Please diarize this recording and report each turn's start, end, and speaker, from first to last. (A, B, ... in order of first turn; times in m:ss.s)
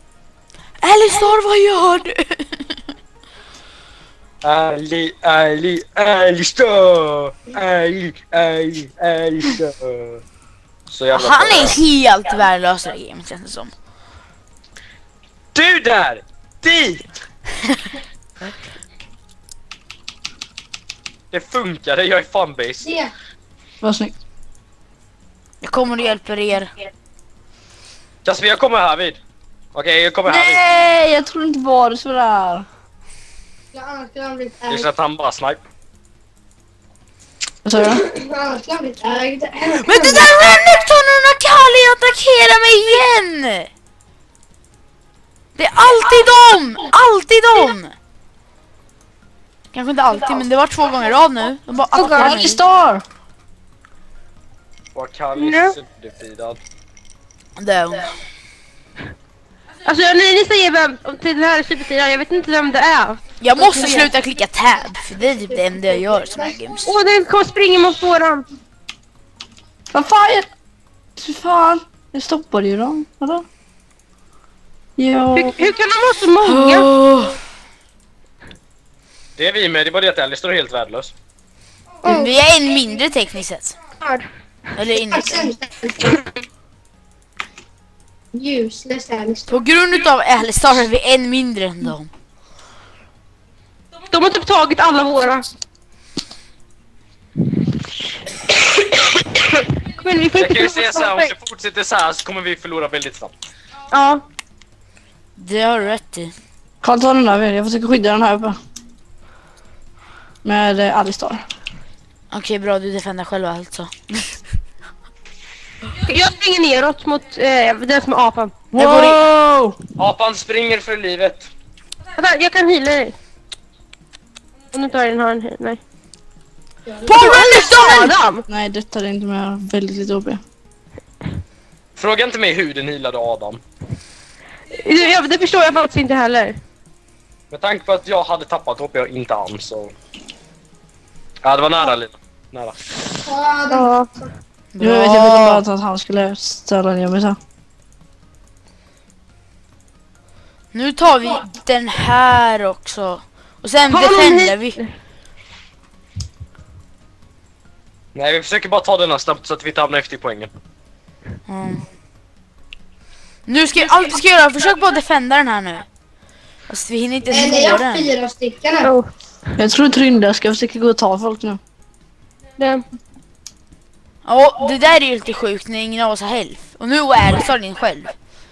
0:00.8-0:02.8 A
0:04.4-0:10.2 B
0:10.9-0:11.8 B
0:11.1-0:13.7 A
0:15.5-0:17.1 B
0:21.3-0:22.9 B
0:22.8-0:23.1 C
0:23.8-0:24.1 D
0:25.6-0:26.7 A
0:28.2-0:29.2 B
0:29.7-0:30.6 B
0:30.3-0:32.6 D
0:33.7-0:34.8 C
0:34.7-0:35.6 B
0:37.6-0:38.0 D
0:38.0-0:40.3 C
0:39.8-0:43.7 A
0:45.6-0:48.0 A
0:49.7-0:52.6 A
0:51.9-0:52.4 E
0:52.2-0:53.0 D
0:54.9-0:56.6 B
0:55.4-0:55.7 E
0:57.6-0:58.1 A
0:59.8-1:04.0 E
1:03.4-1:06.9 A
1:03.8-1:04.1 C
1:05.3-1:06.6 C
1:06.8-1:08.4 E
1:09.9-1:10.5 D
1:11.2-1:13.4 D
1:15.0-1:15.6 D
1:15.3-1:16.9 E
1:16.4-1:17.4 A
1:19.4-1:21.1 B
1:22.0-1:23.8 A
1:23.9-1:24.2 E
1:24.8-1:25.5 A
1:24.9-1:26.2 C
1:28.3-1:29.6 C
1:29.5-1:32.1 A
1:34.1-1:35.5 E
1:39.9-1:41.3 E
1:40.3-1:43.3 B
1:43.9-1:44.2 E
1:45.4-1:46.3 A
1:46.8-1:48.6 D
1:50.4-1:51.4 D
1:52.3-1:54.4 A
1:56.0-1:58.6 E
1:58.7-1:59.2 A
1:58.7-1:59.8 D
2:00.0-2:01.5 B
2:02.2-2:03.2 E
2:04.7-2:05.8 E
2:06.8-2:07.1 C
2:07.0-2:08.1 A
2:07.1-2:08.4 E
2:08.5-2:10.4 D
2:12.0-2:13.6 B
2:14.7-2:16.6 E
2:17.5-2:19.9 B
2:21.4-2:22.8 B
2:23.2-2:24.3 C
2:23.7-2:24.0 D
2:24.7-2:25.6 A
2:24.8-2:27.4 D
2:30.7-2:34.8 A
2:33.9-2:34.9 E
2:38.1-2:40.5 B
2:41.5-2:41.8 A
2:43.5-2:45.8 A
2:46.7-2:48.1 A
2:47.3-2:48.9 C
2:48.8-2:49.1 E
2:49.6-2:51.6 D
2:52.6-2:52.8 E
2:54.2-2:58.1 A